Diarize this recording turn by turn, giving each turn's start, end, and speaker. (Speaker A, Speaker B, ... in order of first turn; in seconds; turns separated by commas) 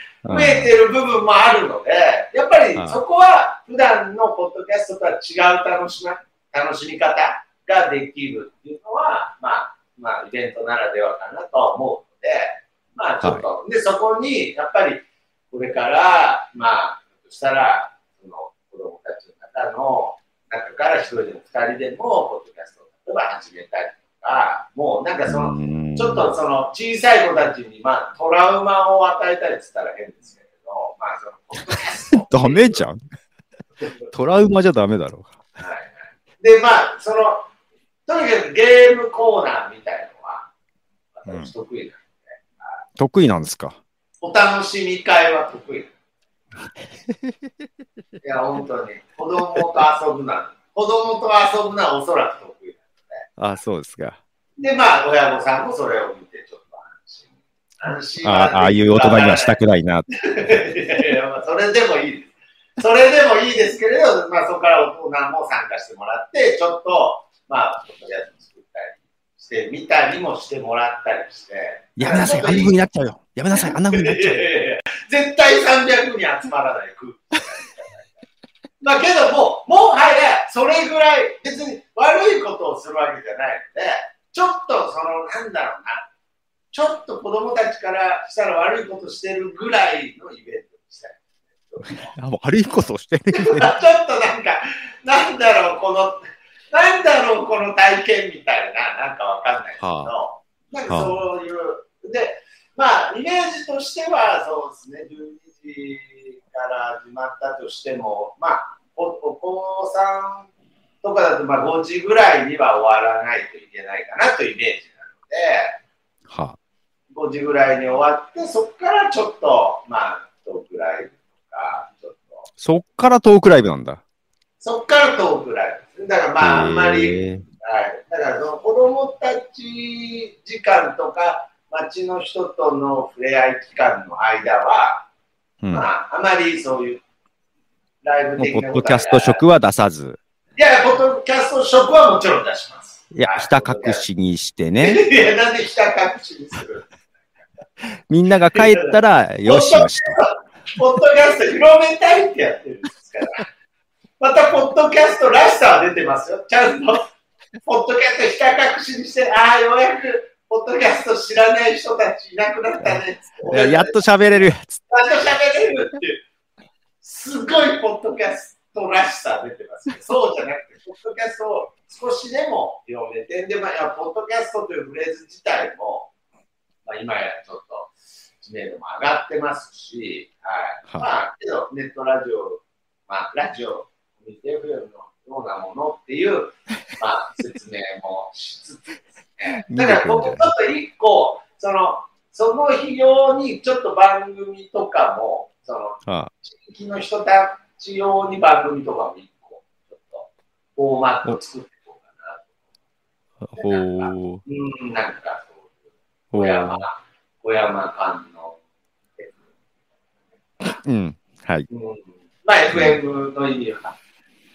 Speaker A: 0.2-0.7, Speaker B: 0.3-32.8, Speaker A: 2.8-3.0, Speaker A: 25.3-26.3, Speaker A: 32.2-33.0, Speaker B: 33.8-34.1, Speaker A: 34.1-35.4, Speaker B: 35.6-37.5, Speaker B: 38.1-40.5, Speaker B: 41.2-42.8, Speaker A: 43.0-43.8, Speaker B: 44.2-45.9, Speaker A: 47.1-47.4, Speaker B: 48.2-53.3, Speaker A: 53.4-54.2, Speaker B: 54.6-59.6, Speaker A: 58.2-60.1, Speaker B: 60.1-72.8, Speaker A: 72.0-74.5, Speaker B: 73.5-78.1, Speaker B: 78.8-86.1, Speaker B: 86.7-92.1, Speaker A: 91.9-93.7, Speaker B: 93.3-110.5, Speaker A: 99.8-100.1, Speaker A: 100.9-101.2, Speaker B: 111.0-115.8, Speaker A: 116.3-116.6, Speaker B: 117.1-122.5, Speaker A: 122.6-124.0, Speaker B: 124.6-135.1, Speaker A: 126.4-127.4, Speaker A: 135.6-135.9, Speaker B: 135.7-137.0, Speaker B: 138.0-139.4, Speaker A: 138.4-140.2, Speaker B: 140.6-144.1, Speaker A: 143.1-145.0, Speaker B: 144.8-146.9, Speaker A: 148.1-150.2, Speaker B: 148.6-148.9, Speaker B: 149.5-153.5, Speaker B: 154.2-157.1, Speaker B: 157.6-166.2, Speaker A: 162.8-164.8, Speaker B: 167.0-176.1, Speaker B: 176.9-202.5, Speaker A: 189.7-190.5, Speaker A: 196.1-196.3, Speaker A: 203.4-204.4, Speaker B: 203.6-205.7, Speaker A: 206.3-206.8, Speaker B: 206.3-208.6, Speaker A: 210.8-211.7, Speaker B: 211.7-214.0, Speaker A: 212.7-213.0